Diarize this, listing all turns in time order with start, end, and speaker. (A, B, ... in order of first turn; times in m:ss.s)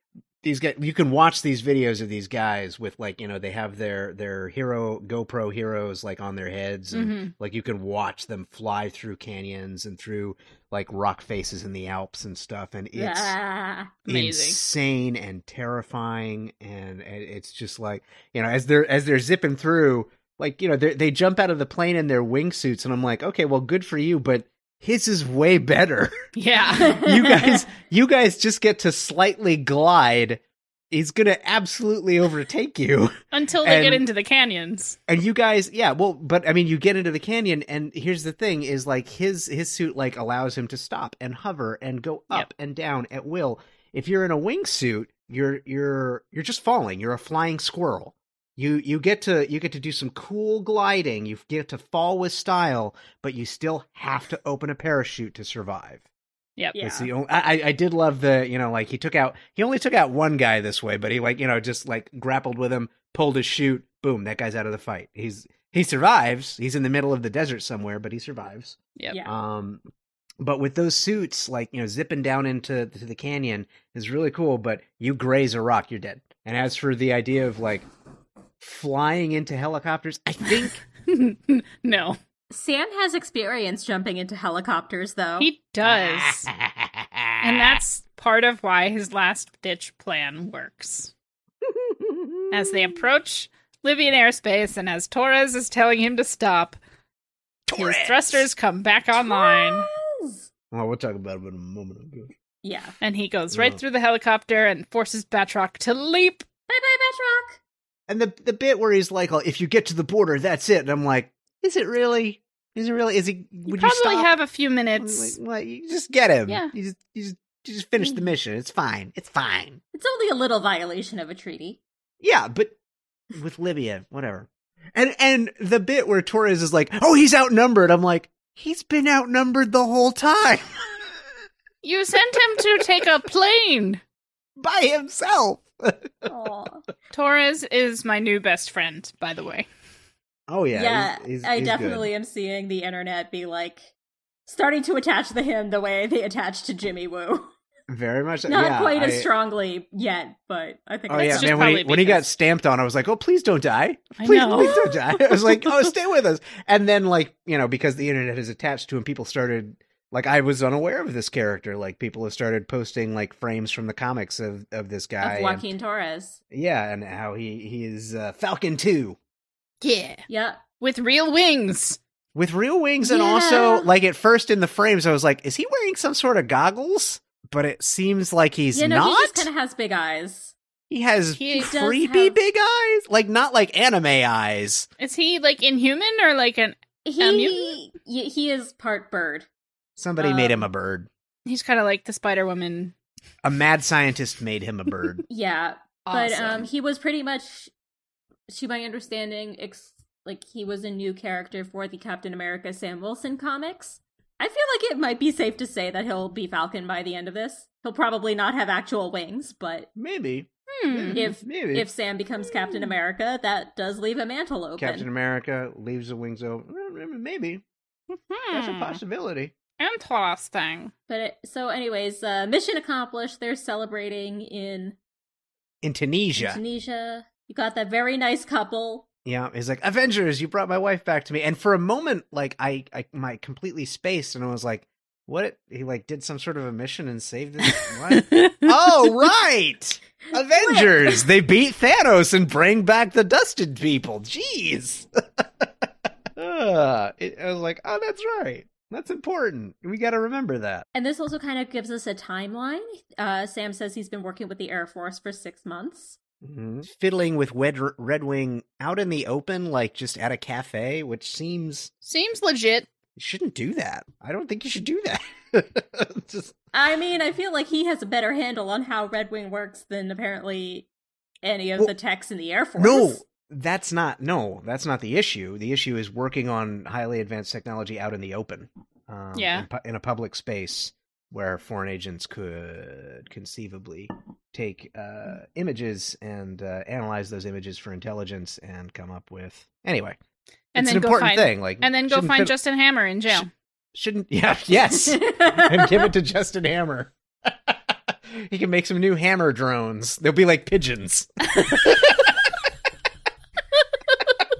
0:00.4-0:13.4 A
0:06.9-0:07.3 B
0:13.0-0:14.0 C
0:14.0-0:14.6 B
0:14.1-0:26.1 A
0:26.4-0:27.1 B
0:26.8-0:34.0 A
0:26.8-0:27.6 C
0:33.3-0:35.0 B
0:35.1-0:56.0 A
0:56.8-0:57.1 C
0:56.8-1:09.8 A
1:10.4-1:17.9 A
1:18.6-1:20.8 A
1:20.6-1:22.2 B
1:22.5-1:25.5 C
1:25.4-1:26.5 B
1:25.8-1:27.8 A
1:27.4-1:31.1 B
1:32.5-1:36.8 B
1:37.7-1:38.5 A
1:37.7-1:39.9 B
1:39.2-1:40.5 C
1:40.7-1:42.3 A
1:42.6-1:43.0 C
1:43.0-1:46.5 B
1:43.5-1:43.8 A
1:46.7-1:47.6 C
1:48.1-1:54.3 A
1:53.7-1:55.4 B
1:55.0-1:59.8 A
1:59.9-2:01.8 C
2:02.2-2:02.8 A
2:03.3-2:10.9 A
2:11.8-2:14.0 B
2:14.6-2:16.3 A
2:16.2-2:16.8 C
2:17.1-2:19.6 B
2:20.5-2:22.1 A
2:20.7-2:23.9 C
2:24.5-2:27.5 C
2:27.9-2:29.3 A
2:28.5-2:31.7 C
2:31.1-2:45.7 A
2:31.3-2:32.2 B
2:34.2-2:35.8 B
2:45.2-2:46.4 C
2:46.5-2:49.2 A
2:49.8-2:50.2 B
2:50.3-2:50.6 C
2:50.8-2:52.0 B
2:52.4-2:59.5 A
2:53.0-2:53.9 C
2:58.7-3:00.6 C
3:00.9-3:04.9 A
3:01.4-3:01.7 B
3:01.6-3:02.4 C
3:05.0-3:07.8 B
3:07.0-3:09.5 C
3:10.0-3:11.1 A
3:10.2-3:10.6 C
3:11.4-3:12.9 B
3:13.4-3:15.2 A
3:15.3-3:17.7 C
3:16.1-3:16.6 B
3:18.5-3:29.9 C
3:30.0-3:31.9 A
3:30.8-3:31.3 B
3:31.1-3:35.1 C
3:34.8-3:37.6 A
3:38.1-3:39.0 B
3:38.5-3:39.5 A
3:39.8-3:40.9 B
3:41.1-3:45.0 C
3:45.8-3:46.6 A
3:46.4-3:49.1 C
3:49.2-4:10.8 A
3:58.1-3:58.7 B
4:00.4-4:01.2 C
4:10.9-4:16.2 C
4:16.4-4:21.9 A
4:22.0-4:22.9 B
4:23.2-4:26.6 A
4:26.7-4:30.9 C
4:31.4-4:33.2 C
4:32.8-4:50.2 A
4:39.4-4:39.6 B
4:50.7-4:53.5 B
4:50.8-4:52.5 A
4:53.3-5:02.5 A
4:55.1-4:56.1 C